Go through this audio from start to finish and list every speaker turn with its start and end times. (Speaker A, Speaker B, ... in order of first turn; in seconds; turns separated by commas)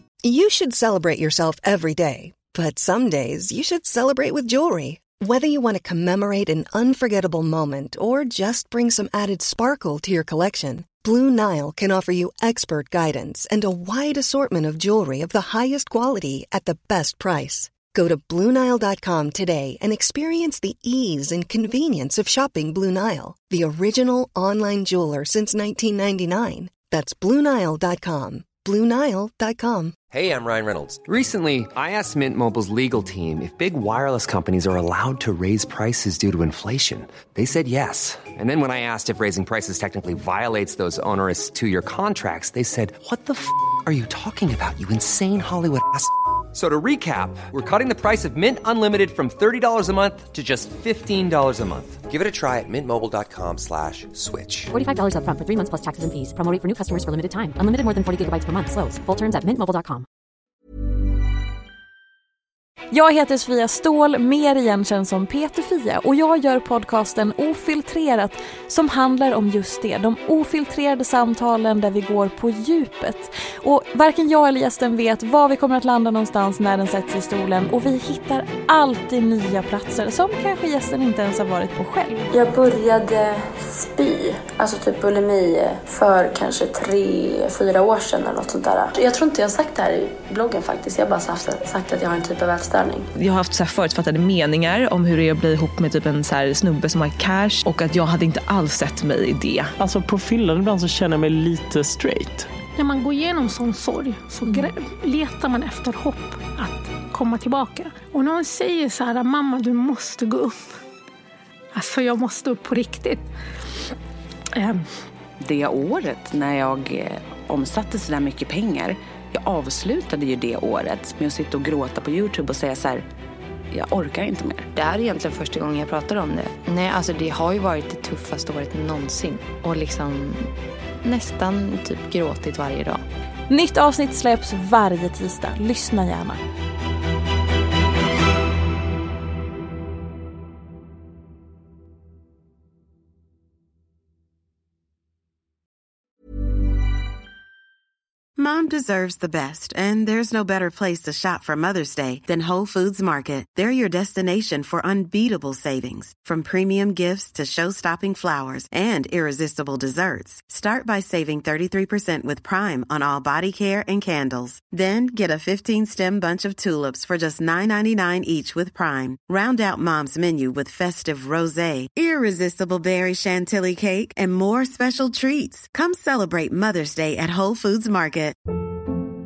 Speaker A: 0.2-29.9, Speaker B: 30.5-52.1, Speaker C: 54.7-60.1, Speaker D: 62.9-82.1, Speaker E: 82.3-93.1, Speaker F: 93.2-99.8, Speaker G: 99.8-102.5, Speaker H: 102.8-110.6, Speaker H: 111.7-113.2, Speaker H: 114.6-114.8, Speaker I: 115.4-123.0, Speaker I: 123.7-124.7, Speaker J: 124.8-130.5, Speaker J: 131.0-133.0, Speaker D: 133.5-136.4, Speaker K: 148.4-178.4